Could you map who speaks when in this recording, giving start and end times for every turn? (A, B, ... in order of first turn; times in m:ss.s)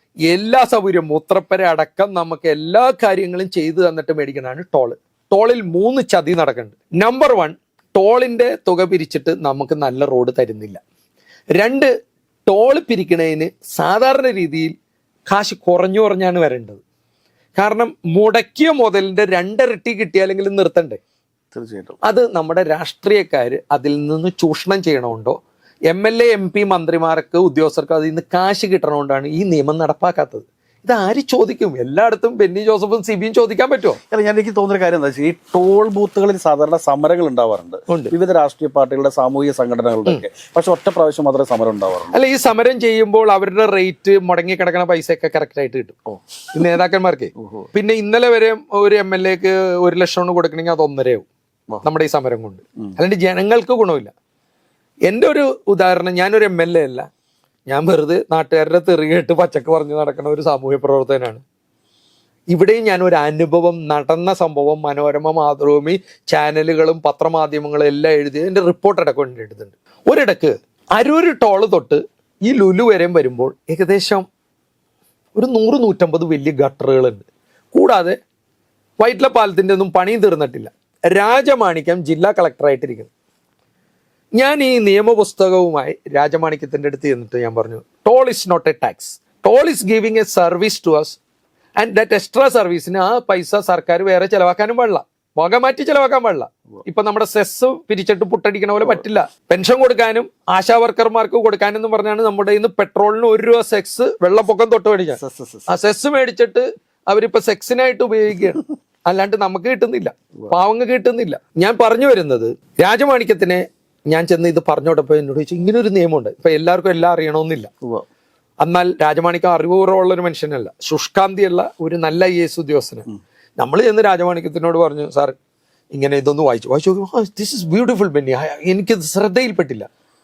0:00.3-0:10.8 A
0:11.6-0:11.9 A
0:12.5-0:14.7 A
0:15.3-0:16.8 A
0:17.6-0:21.0 A
0:21.5-0:22.0 B
0:22.0-0:25.4 A
0:25.9-0:34.0 A
0:34.1-0:42.2 B
0:42.1-0:51.3 A
0:47.4-0:47.7 B
0:51.8-0:54.1 A
0:55.1-0:57.1 A
0:57.7-1:01.4 A
1:02.5-1:14.3 A
1:15.4-1:18.2 A
1:19.0-1:23.1 A
1:24.4-1:31.2 A
1:31.8-1:57.7 A
1:45.2-1:45.7 B
1:58.6-2:05.4 A
2:05.9-2:09.9 A